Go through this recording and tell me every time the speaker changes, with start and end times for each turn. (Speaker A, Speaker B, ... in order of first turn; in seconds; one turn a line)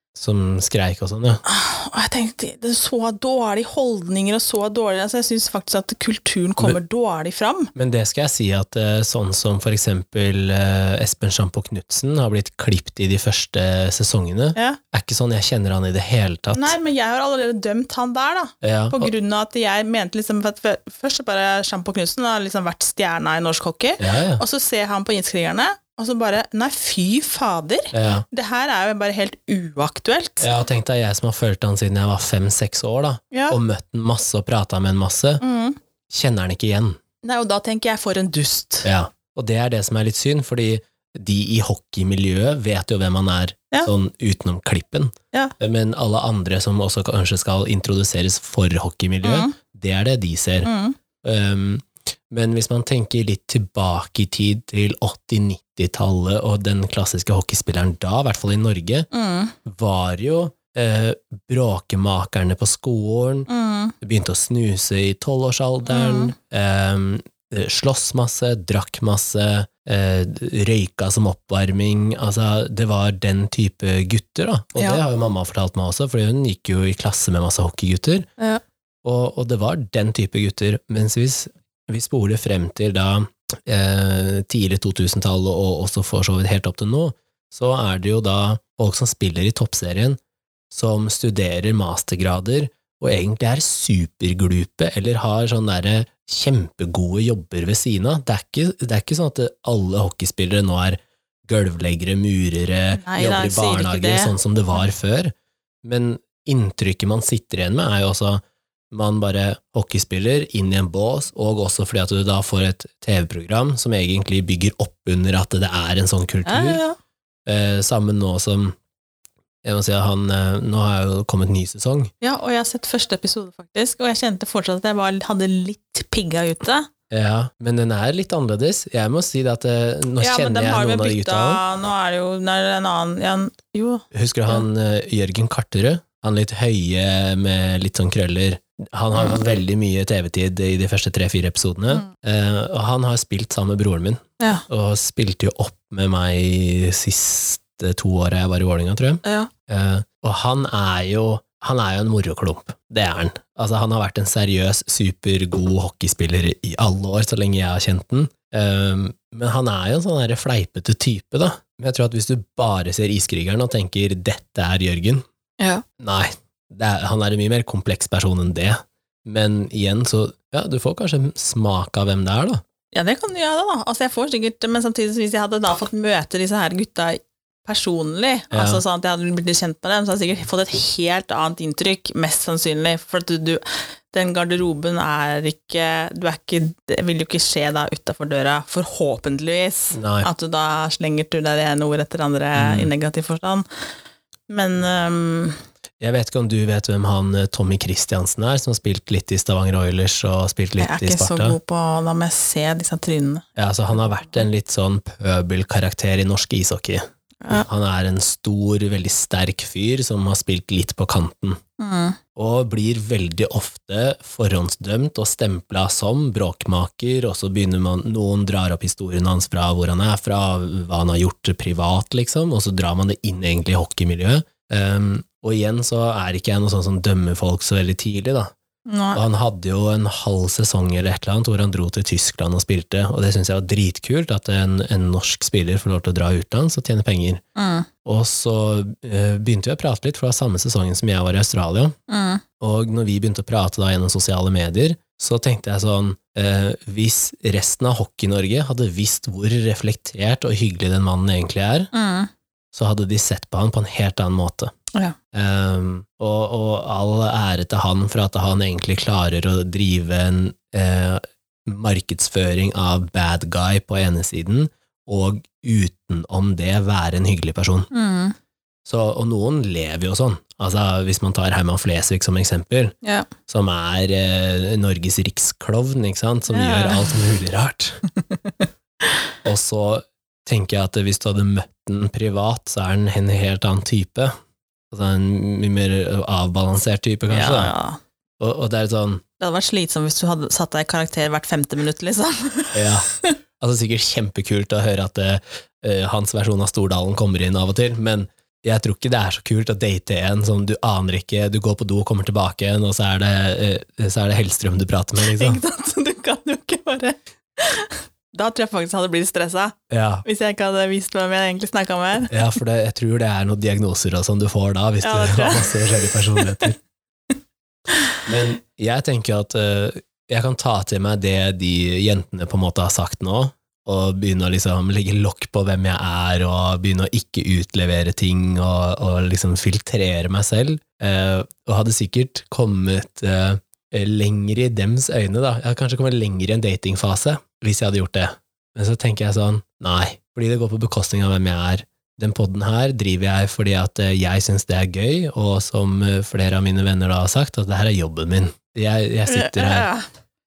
Speaker A: 0.1-1.4
Speaker B: 1.4-7.7
Speaker A: 7.7-16.7
Speaker B: 16.5-30.5
Speaker A: 18.6-19.1
Speaker A: 24.0-24.4
Speaker A: 27.9-28.2
Speaker A: 30.4-35.4
Speaker B: 33.3-33.6
Speaker B: 35.4-35.8
Speaker A: 36.1-37.0
Speaker B: 37.2-38.9
Speaker A: 38.8-50.7
Speaker B: 49.2-49.5
Speaker B: 50.6-51.0
Speaker A: 51.2-59.1
Speaker B: 59.1-59.5
Speaker A: 59.6-63.5
Speaker B: 63.5-63.9
Speaker A: 64.0-78.3
Speaker B: 65.8-66.3
Speaker A: 79.0-90.2
Speaker A: 90.7-116.8
Speaker B: 102.9-104.3
Speaker B: 116.4-117.0
Speaker A: 117.5-118.8
Speaker A: 119.6-122.1
Speaker B: 122.2-126.9
Speaker A: 127.1-131.6
Speaker B: 130.2-134.6
Speaker A: 134.1-165.2
Speaker B: 139.1-139.4
Speaker B: 149.2-149.5
Speaker A: 166.0-172.6
Speaker B: 172.9-193.6
Speaker A: 178.5-178.8
Speaker A: 189.9-190.3
Speaker A: 192.6-192.9
Speaker B: 194.5-195.6
Speaker A: 196.0-201.6
Speaker B: 200.8-204.4
Speaker A: 203.6-211.6
Speaker B: 211.8-212.2
Speaker A: 212.3-228.5
Speaker B: 228.9-229.2
Speaker A: 229.1-237.4
Speaker B: 237.6-237.9
Speaker A: 238.0-241.9
Speaker B: 242.1-242.4
Speaker A: 242.6-251.9
Speaker B: 251.9-252.3
Speaker A: 252.7-254.7
Speaker A: 255.3-267.9
Speaker B: 267.9-268.3
Speaker A: 268.9-272.9
Speaker B: 273.0-273.3
Speaker A: 273.5-278.0
Speaker B: 276.5-277.2
Speaker B: 278.2-279.1
Speaker A: 279.4-284.3
Speaker A: 284.9-287.7
Speaker B: 287.3-288.0
Speaker A: 288.4-289.2
Speaker B: 289.4-293.3
Speaker A: 292.7-293.1
Speaker A: 293.6-305.6
Speaker B: 305.2-312.4
Speaker A: 309.9-310.2
Speaker A: 312.3-316.8
Speaker B: 315.0-316.7
Speaker B: 317.9-318.2
Speaker A: 318.2-349.9
Speaker B: 349.3-350.0